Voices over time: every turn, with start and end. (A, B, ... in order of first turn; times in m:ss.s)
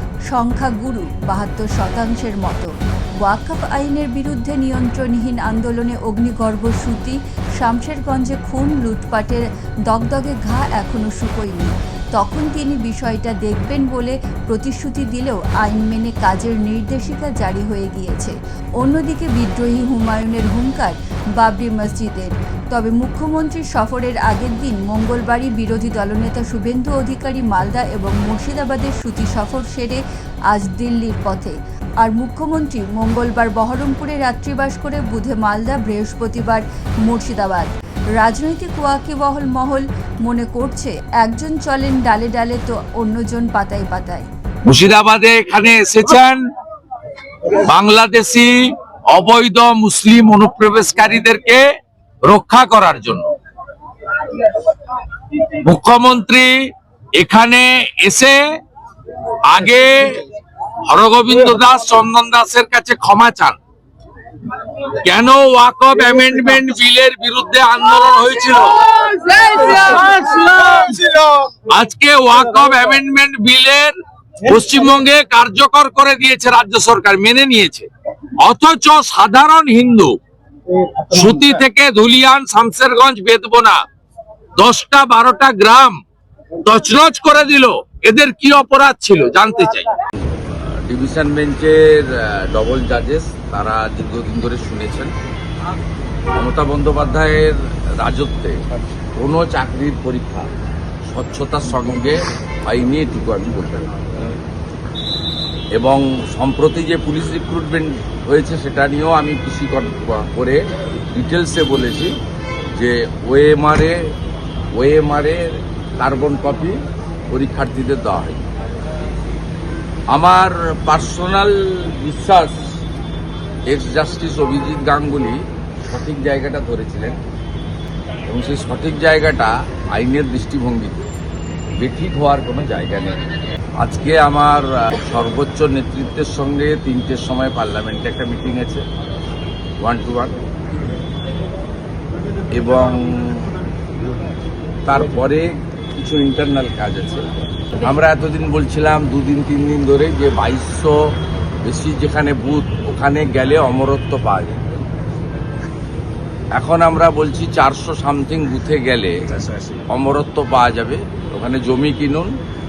0:00.3-0:44.3 A
0:44.7-0:46.4 B
0:45.6-0:46.0 C
0:47.7-0:48.4 B
0:48.0-0:48.4 C
0:49.2-0:51.1 C
0:49.2-0:51.6 B
0:52.3-0:53.2 B
0:55.7-0:56.5 C
0:55.7-0:56.4 B
0:57.2-0:58.3 B
0:57.2-0:58.3 C
0:59.5-0:59.9 B
1:00.9-1:03.5 B
1:01.6-1:02.9 C
1:05.0-1:13.8 B
1:05.2-1:06.0 C
1:06.6-1:07.1 C
1:07.8-1:08.7 C
1:12.1-1:12.3 C
1:13.4-1:13.9 C
1:14.5-1:17.8 B
1:15.2-1:17.8 C
1:18.4-1:19.8 C
1:18.6-1:20.1 B
1:21.0-1:23.6 B
1:21.7-1:23.7 C
1:24.6-1:25.9 B
1:24.6-1:25.9 C
1:26.7-1:29.8 B
1:26.7-1:28.2 C
1:29.0-1:29.6 C
1:30.5-1:35.1 C
1:36.3-1:38.6 C
1:39.2-1:40.5 C
1:41.1-1:43.9 C
1:45.7-1:52.1 C
1:52.7-1:54.1 C
1:54.7-1:56.8 C
1:57.3-1:58.4 C
2:00.1-2:02.7 C
2:03.6-2:07.2 C
2:08.2-2:11.0 C
2:11.8-2:13.2 C
2:13.8-2:18.8 C
2:19.8-2:20.4 C
2:22.5-2:23.5 C
2:24.8-2:31.0 C
2:31.6-2:34.6 C
2:36.5-2:39.1 C
2:39.9-2:42.4 C